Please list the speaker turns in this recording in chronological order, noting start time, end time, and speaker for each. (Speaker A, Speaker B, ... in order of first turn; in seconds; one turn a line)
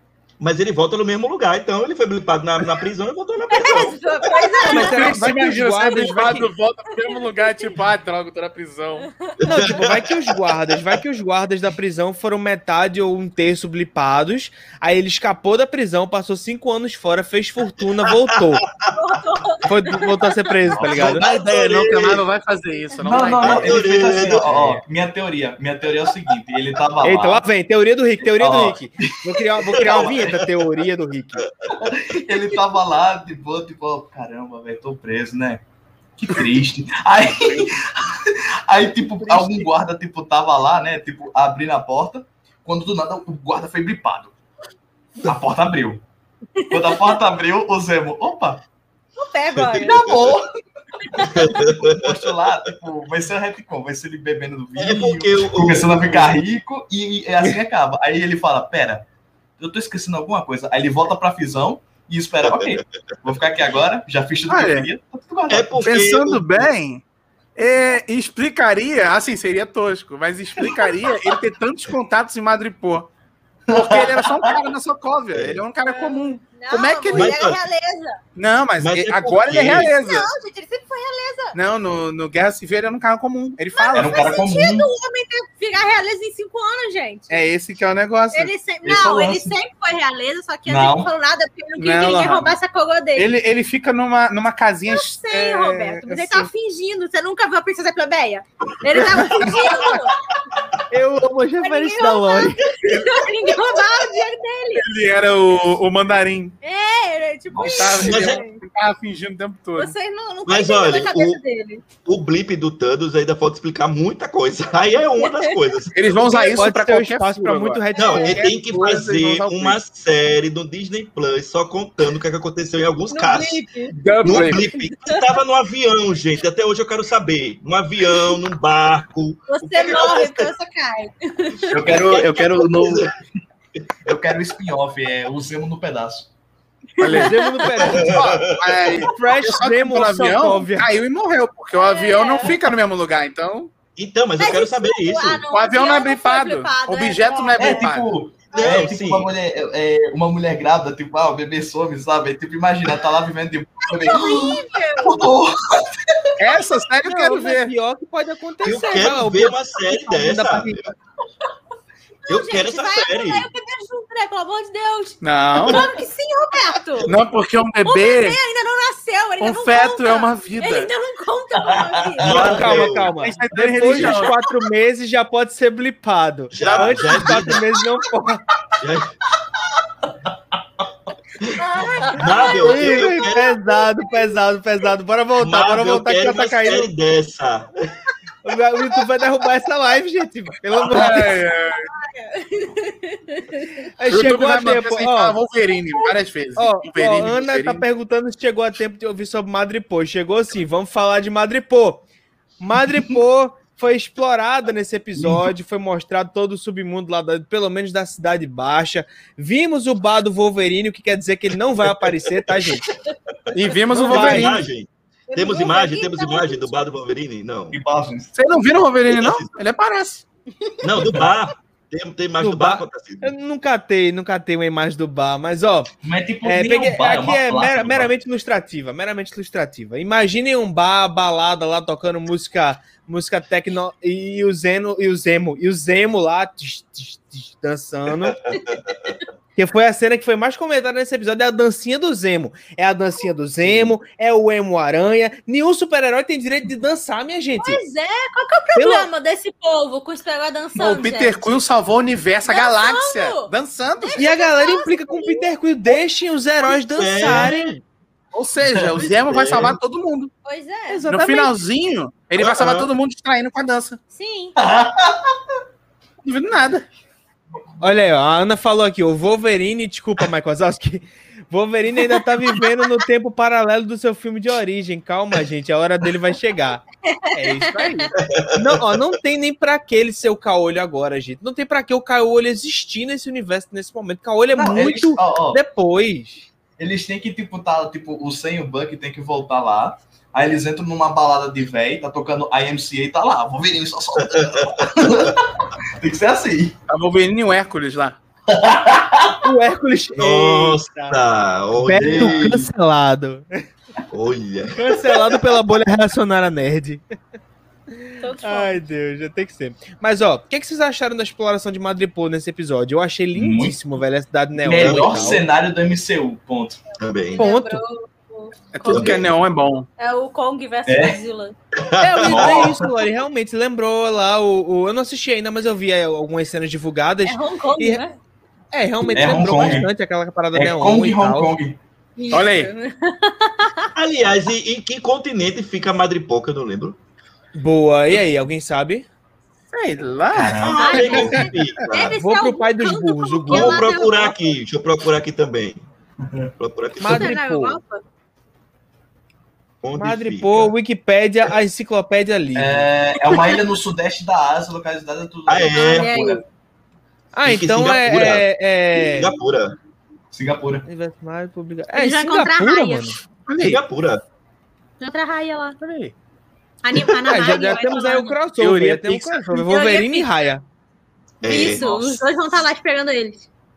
Speaker A: 0.4-4.6
Speaker B: 3.5-5.3
Speaker C: 4.6-6.5
Speaker D: 4.6-9.1
Speaker B: 9.0-9.3
Speaker A: 9.4-10.9
Speaker C: 9.4-18.6
Speaker B: 18.9-20.4
Speaker C: 19.6-21.2
Speaker E: 20.7-21.2
Speaker A: 20.8-22.2
Speaker D: 21.0-24.1
Speaker E: 23.0-27.4
Speaker A: 23.4-24.5
Speaker C: 24.2-24.8
Speaker C: 27.0-31.5
Speaker E: 28.4-30.4
Speaker A: 29.8-30.3
Speaker A: 31.4-31.9
Speaker E: 31.8-35.6
Speaker E: 36.2-44.4
Speaker C: 39.2-39.7
Speaker E: 45.2-46.0
Speaker B: 46.5-47.1
Speaker E: 46.7-48.6
Speaker B: 49.2-50.2
Speaker A: 49.5-50.3
Speaker E: 49.8-50.5
Speaker E: 51.1-59.0
Speaker B: 51.2-51.5
Speaker A: 51.2-52.5
Speaker A: 54.8-56.4
Speaker E: 59.6-65.8
Speaker A: 62.4-62.8
Speaker D: 64.5-64.9
Speaker A: 65.5-66.6
Speaker D: 65.8-67.0
Speaker D: 67.5-73.1
Speaker E: 73.7-74.5
Speaker D: 73.7-77.4
Speaker A: 75.3-75.6
Speaker B: 75.8-78.2
Speaker A: 77.1-77.6
Speaker D: 78.3-80.3
Speaker A: 78.8-79.9
Speaker B: 79.6-81.6
Speaker D: 81.5-84.3
Speaker B: 83.7-87.4
Speaker E: 83.9-84.9
Speaker D: 87.3-88.5
Speaker B: 88.3-93.3
Speaker E: 88.8-89.5
Speaker E: 90.7-91.1
Speaker D: 91.8-92.5
Speaker D: 93.2-96.5
Speaker B: 94.9-100.2
Speaker E: 99.2-100.0
Speaker D: 99.4-100.0
Speaker C: 100.9-102.6
Speaker B: 101.6-104.8
Speaker D: 104.8-106.5
Speaker B: 106.6-108.6
Speaker E: 107.5-108.2
Speaker D: 107.6-109.9
Speaker A: 108.0-108.4
Speaker B: 109.8-111.8
Speaker A: 110.5-111.4
Speaker A: 112.0-115.9
Speaker B: 115.2-115.5
Speaker D: 115.9-119.8
Speaker C: 116.2-118.5
Speaker A: 118.0-123.6
Speaker B: 123.1-125.2
Speaker D: 124.0-124.6
Speaker A: 124.2-130.5
Speaker B: 129.5-132.0
Speaker E: 131.7-133.2
Speaker A: 131.9-133.1
Speaker E: 134.1-136.3
Speaker B: 137.0-137.4
Speaker D: 137.0-143.7
Speaker C: 137.1-138.3
Speaker A: 137.9-139.0
Speaker C: 139.0-140.9
Speaker B: 141.7-142.6
Speaker A: 143.9-145.4
Speaker B: 144.4-147.9
Speaker D: 145.5-148.1
Speaker E: 147.6-156.3
Speaker A: 148.5-149.3
Speaker B: 148.5-148.9
Speaker B: 154.0-155.3
Speaker D: 156.4-157.7
Speaker C: 157.1-160.9
Speaker A: 158.6-160.9
Speaker B: 162.3-167.1
Speaker A: 162.3-163.5
Speaker D: 165.2-165.9
Speaker D: 167.1-168.4
Speaker B: 167.8-172.7
Speaker D: 169.4-170.9
Speaker E: 171.6-172.9
Speaker A: 172.2-173.2
Speaker C: 172.2-178.4
Speaker D: 173.2-174.3
Speaker A: 176.5-177.6
Speaker D: 176.6-177.1
Speaker A: 178.8-179.1
Speaker B: 181.6-184.1
Speaker A: 182.1-183.6
Speaker C: 182.6-186.9
Speaker A: 185.4-187.7
Speaker C: 188.4-191.4
Speaker D: 190.9-191.9
Speaker B: 191.9-193.9
Speaker C: 194.0-195.3
Speaker D: 194.1-197.8
Speaker C: 196.6-202.0
Speaker C: 202.6-212.8
Speaker E: 205.2-205.4
Speaker A: 212.9-213.3
Speaker D: 213.5-214.6
Speaker A: 213.9-217.8
Speaker C: 214.0-214.6
Speaker B: 215.3-216.7
Speaker E: 217.7-218.3
Speaker D: 218.3-220.2
Speaker A: 219.1-219.5
Speaker A: 220.8-223.3
Speaker E: 220.9-221.2
Speaker C: 222.4-225.9
Speaker E: 226.0-228.1
Speaker C: 226.4-238.4
Speaker A: 238.2-239.1
Speaker B: 238.5-239.2
Speaker C: 239.6-247.8
Speaker A: 243.7-243.9
Speaker B: 247.6-251.4
Speaker C: 248.7-249.1
Speaker D: 250.8-254.2
Speaker B: 252.5-255.4
Speaker C: 254.2-257.7
Speaker A: 256.8-257.8
Speaker D: 258.3-260.3
Speaker A: 259.2-259.8
Speaker B: 260.4-261.1
Speaker C: 260.9-261.5
Speaker D: 261.1-264.0
Speaker A: 262.4-262.9
Speaker B: 264.1-264.5
Speaker E: 264.6-265.4
Speaker D: 266.2-266.9
Speaker C: 267.8-286.4
Speaker B: 277.1-277.9
Speaker D: 277.7-278.1
Speaker A: 278.2-278.9
Speaker E: 284.6-285.6
Speaker E: 286.8-296.7
Speaker A: 294.2-295.3
Speaker D: 296.9-298.2
Speaker E: 298.5-299.4
Speaker C: 299.4-301.2
Speaker A: 300.1-302.7
Speaker C: 301.8-303.5
Speaker E: 302.0-302.5
Speaker A: 304.1-305.4
Speaker C: 304.8-307.0
Speaker C: 308.0-315.4
Speaker B: 308.2-308.8
Speaker E: 313.3-313.8
Speaker E: 314.6-316.8
Speaker A: 314.7-315.4
Speaker A: 317.0-317.4
Speaker B: 317.3-319.2
Speaker C: 317.4-317.8
Speaker D: 318.7-319.9
Speaker A: 318.9-319.3
Speaker B: 320.0-321.6
Speaker E: 320.9-321.2
Speaker A: 321.8-322.8
Speaker C: 322.0-328.0
Speaker E: 322.2-322.8
Speaker B: 327.2-328.2
Speaker C: 328.7-331.5
Speaker B: 329.1-329.8
Speaker E: 329.1-329.9
Speaker E: 330.5-331.8
Speaker B: 332.2-333.9
Speaker D: 332.3-332.7
Speaker A: 333.9-337.0
Speaker C: 337.6-339.1
Speaker D: 339.7-341.5
Speaker E: 340.3-341.3
Speaker A: 340.6-342.2
Speaker B: 340.7-344.3
Speaker C: 342.2-343.8
Speaker A: 343.5-345.8
Speaker A: 346.6-347.3
Speaker C: 347.0-347.8
Speaker B: 347.0-348.0
Speaker A: 349.8-350.7
Speaker C: 349.9-352.9
Speaker E: 352.5-356.4
Speaker B: 353.4-353.6
Speaker A: 355.5-356.2
Speaker B: 355.7-356.4
Speaker C: 357.3-359.3
Speaker A: 357.4-358.5
Speaker A: 359.1-359.7
Speaker E: 360.3-360.9
Speaker C: 360.9-363.2
Speaker B: 361.9-363.2
Speaker D: 363.5-363.8
Speaker A: 363.6-364.2
Speaker B: 365.0-365.8
Speaker D: 365.8-366.1
Speaker B: 366.8-368.4
Speaker C: 367.2-370.6
Speaker D: 368.6-369.6
Speaker B: 369.6-370.3
Speaker A: 371.4-372.2
Speaker B: 371.4-373.5